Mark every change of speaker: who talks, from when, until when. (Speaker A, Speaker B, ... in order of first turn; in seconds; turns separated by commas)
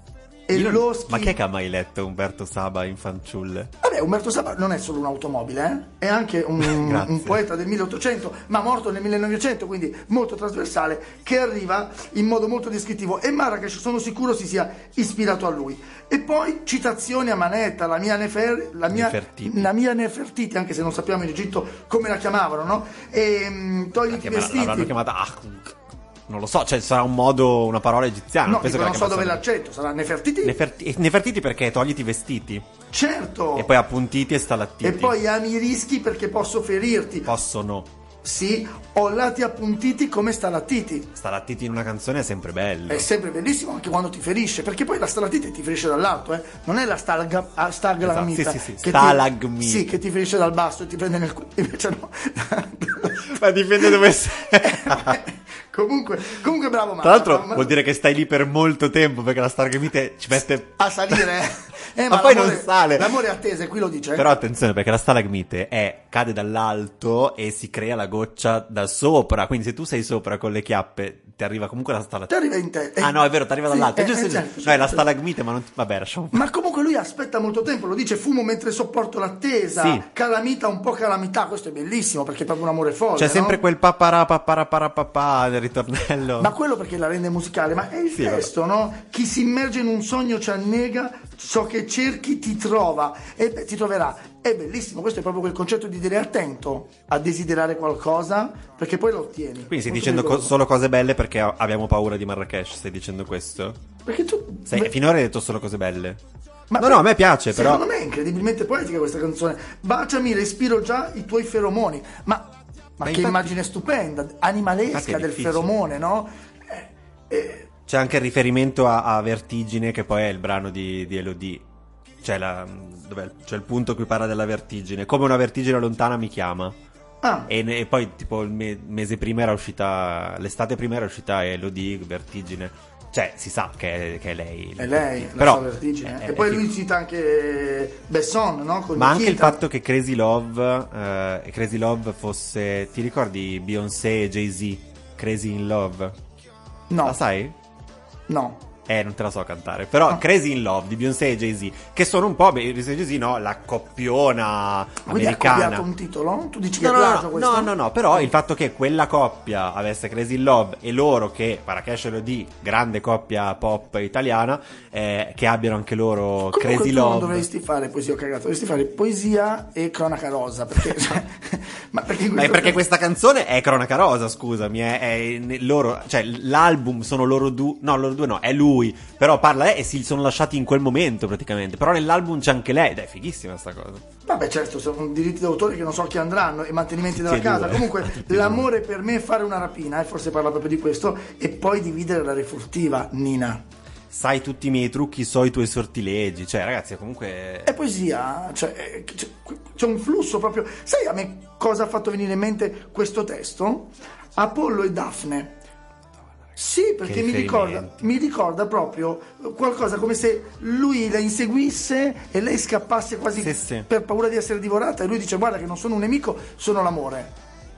Speaker A: 0.5-1.3, Speaker B: 0.5-3.7, Speaker A: 3.8-24.9, Speaker B: 6.6-7.4, Speaker B: 18.9-19.7, Speaker B: 24.1-29.4, Speaker A: 28.4-30.6, Speaker B: 30.4-32.7, Speaker A: 32.9-33.7, Speaker B: 33.5-35.2, Speaker A: 34.8-37.3, Speaker B: 37.2-37.9, Speaker A: 38.2-41.1, Speaker B: 41.1-43.1, Speaker A: 42.9-53.3, Speaker B: 48.0-49.9, Speaker B: 53.3-55.2, Speaker A: 54.7-57.7, Speaker B: 57.0-61.2, Speaker A: 60.8-64.3, Speaker B: 62.1-63.2, Speaker B: 64.1-72.3, Speaker A: 72.3-75.1, Speaker B: 73.0-76.4, Speaker A: 76.3-83.6, Speaker B: 79.7-80.0, Speaker B: 83.2-86.5, Speaker A: 86.4-100.5, Speaker B: 88.1-88.5, Speaker B: 99.7-103.8, Speaker A: 104.0-104.9, Speaker B: 104.7-106.2, Speaker A: 106.7-117.7, Speaker B: 106.8-107.8, Speaker B: 113.0-113.6, Speaker B: 114.9-115.7, Speaker B: 117.9-121.6, Speaker B: 122.2-126.8, Speaker A: 127.2-127.5, Speaker B: 127.5-136.7, Speaker A: 134.8-139.6, Speaker B: 138.9-146.2, Speaker A: 146.9-147.2, Speaker B: 147.0-147.6, Speaker A: 148.3-148.6, Speaker B: 148.9-155.8, Speaker A: 155.1-158.3, Speaker B: 156.8-167.5, Speaker A: 166.5-172.8, Speaker B: 172.3-184.0, Speaker A: 184.2-193.6, Speaker B: 187.1-188.7, Speaker B: 194.1-197.8, Speaker A: 197.7-205.6, Speaker A: 206.6-217.3, Speaker B: 207.0-208.1, Speaker B: 213.4-213.9